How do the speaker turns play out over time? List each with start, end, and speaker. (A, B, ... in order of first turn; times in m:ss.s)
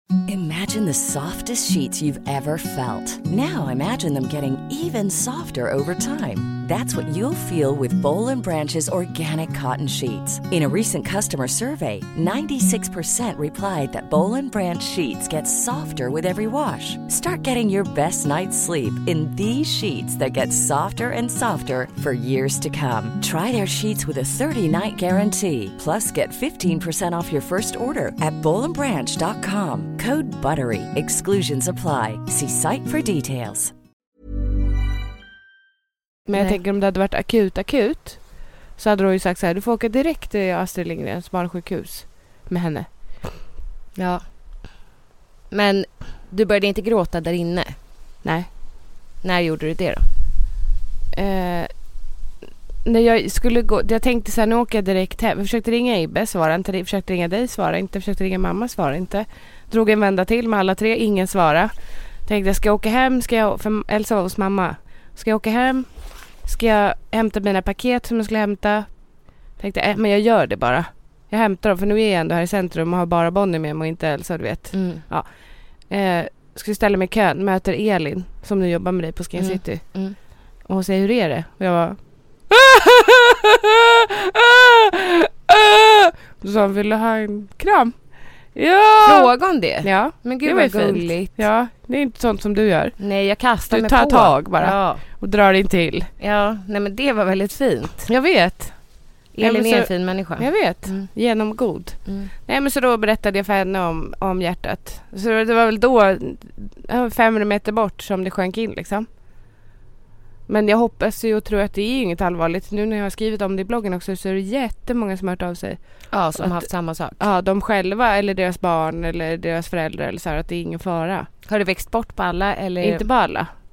0:00.3-0:33.7 A
0:36.3-0:43.3 B
0:44.0-0:44.2 C
0:45.5-0:47.8 C
0:48.2-0:48.5 B
0:49.2-0:50.1 C
0:51.1-0:51.7 B
0:52.8-1:01.7 B
1:02.2-1:09.0 B
1:09.5-1:20.0 B
1:14.7-1:15.0 C
1:19.4-1:20.2 C
1:20.6-1:22.0 B
1:22.5-1:27.9 B
1:28.6-1:33.0 B
1:29.0-1:31.4 C
1:33.0-1:35.0 C
1:33.7-1:36.1 B
1:36.2-1:38.1 C
1:38.1-1:38.8 B
1:39.4-1:41.1 C
1:39.4-1:49.1 B
1:42.1-1:42.3 C
1:50.5-1:55.8 B
1:56.1-1:57.2 C
1:56.3-2:01.3 B
2:01.5-2:03.0 C
2:02.8-2:03.5 B